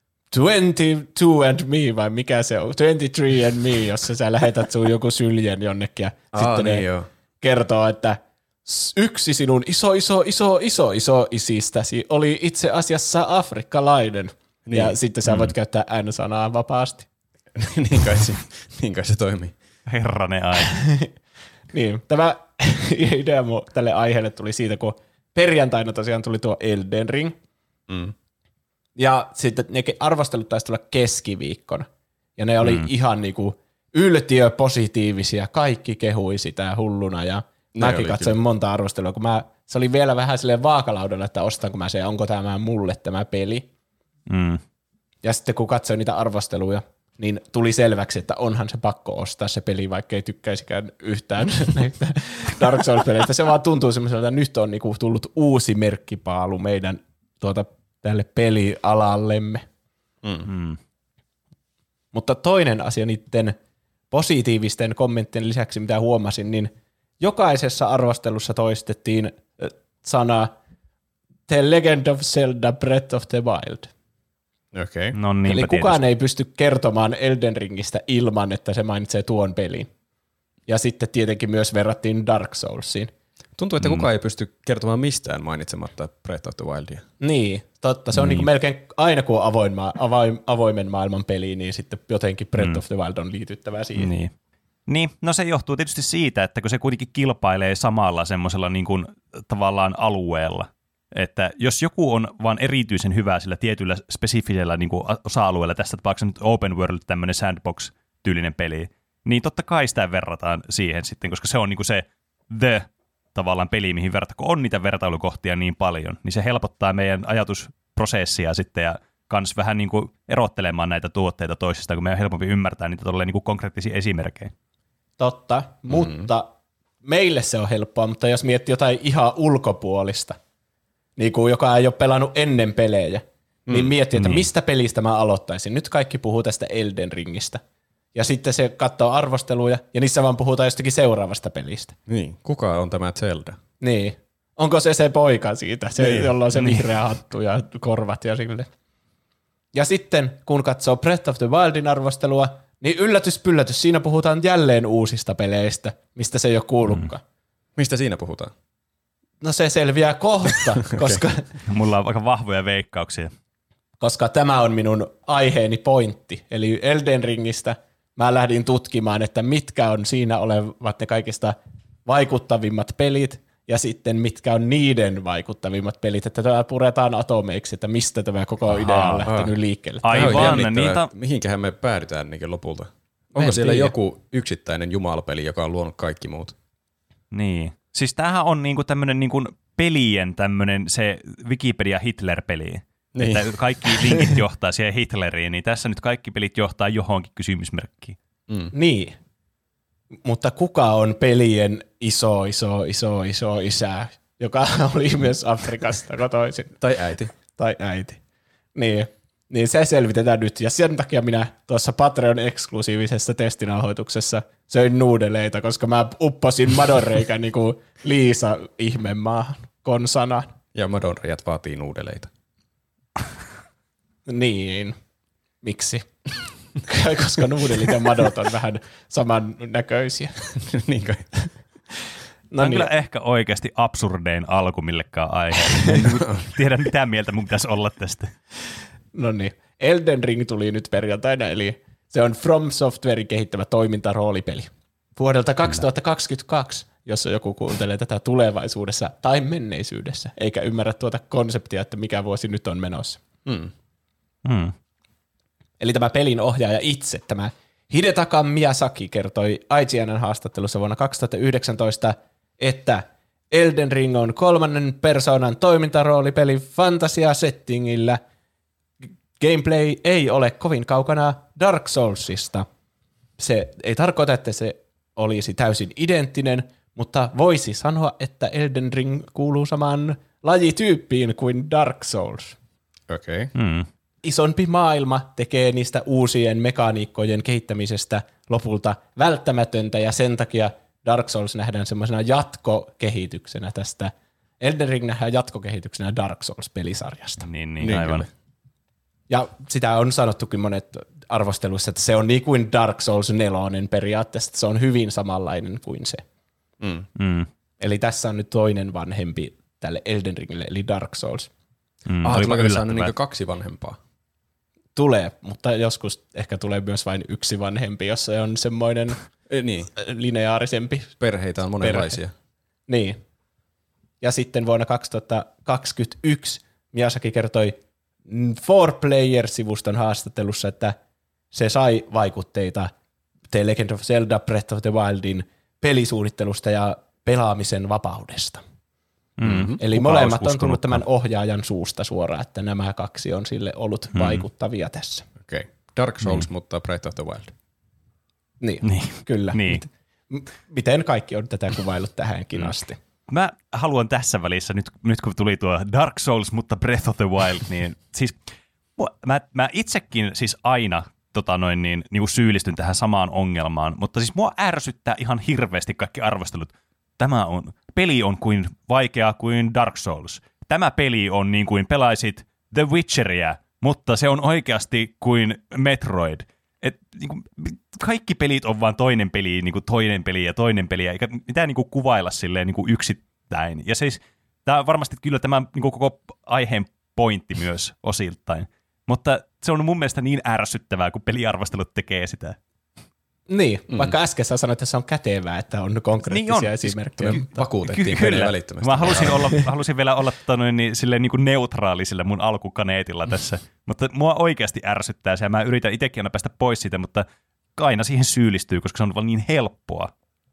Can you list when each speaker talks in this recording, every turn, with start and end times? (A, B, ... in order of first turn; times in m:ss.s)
0:00.3-0:06.8 A
0:06.3-0:07.1 B
0:07.4-0:17.1 A
0:14.6-0:15.0 B
0:17.6-0:19.6 B
0:19.9-0:20.8 C
0:20.6-0:21.1 A
0:21.7-0:27.4 A
0:27.9-0:28.2 B
0:29.0-0:43.7 A
0:37.8-0:38.4 B
0:44.3-0:44.6 C
0:45.2-0:59.6 A
1:00.2-1:00.5 B
1:00.5-1:00.8 C
1:02.1-1:03.6 A
1:04.1-1:10.5 A
1:11.5-1:13.9 A
1:14.7-1:15.2 B
1:15.1-1:16.0 C
1:15.4-1:19.9 A
1:20.7-1:23.1 A
1:23.6-1:27.0 B
1:23.8-1:24.1 C
1:27.2-1:34.1 A
1:28.2-1:28.5 C
1:34.0-1:34.3 C
1:34.9-2:04.5 C
2:05.2-2:06.5 A
2:05.9-2:06.3 B
2:07.0-2:10.4 A
2:11.2-2:17.6 A
2:13.7-2:14.0 B
2:14.2-2:14.5 C
2:18.1-2:22.0 A
2:22.1-2:23.6 B
2:23.8-2:28.7 A
2:26.0-2:26.7 B
2:29.7-2:37.2 A
2:37.8-2:38.5 B
2:39.4-2:41.5 A
2:41.7-2:43.3 C
2:44.0-3:00.6 A
2:58.7-2:59.4 C
2:59.3-2:59.5 B
3:00.0-3:01.1 C
3:00.1-3:06.6 B
3:03.4-3:03.9 A
3:07.3-3:18.2 C
3:13.2-3:13.5 B
3:18.5-3:18.7 B
3:18.7-3:19.2 A
3:20.2-3:26.8 A
3:26.8-3:27.3 B
3:27.5-3:28.2 A
3:28.8-3:40.5 A
3:40.7-3:42.3 B
3:44.3-3:45.0 A
3:45.6-3:46.1 A
3:46.8-3:50.5 A
3:50.5-3:51.3 B
3:52.5-3:52.9 A
3:52.6-3:58.3 C
3:56.1-3:56.5 B
3:59.1-4:13.2 A
4:13.4-4:13.7 B
4:14.4-4:14.8 C
4:15.8-4:28.2 A
4:29.4-4:32.7 A
4:33.4-4:42.6 A
4:43.1-4:43.5 B
4:43.6-4:43.9 C
4:44.2-4:57.5 A
4:57.4-4:58.3 C
4:57.8-4:58.3 B
4:59.3-5:06.2 A
5:06.8-5:07.1 B
5:07.2-5:07.5 C
5:07.8-5:11.5 A
5:12.1-5:13.1 C
5:12.2-5:14.0 B
5:15.0-5:19.2 A
5:19.5-5:19.9 B
5:19.9-5:21.2 A
5:21.2-5:22.3 B
5:21.8-5:22.2 A
5:22.9-5:23.2 A
5:24.2-5:27.8 A
5:28.3-5:31.0 A
5:31.5-5:32.9 A
5:33.5-5:38.6 A
5:39.4-5:39.8 C
5:39.4-5:41.0 B
5:39.8-5:45.3 A
5:44.2-5:44.4 C
5:45.4-5:47.5 B
5:48.6-5:53.0 A
5:48.8-5:49.8 C
5:53.3-5:58.4 C
5:59.0-6:32.6 C
6:33.5-6:37.6 A
6:36.2-6:47.2 C
6:37.2-6:39.7 B
6:47.8-6:50.1 C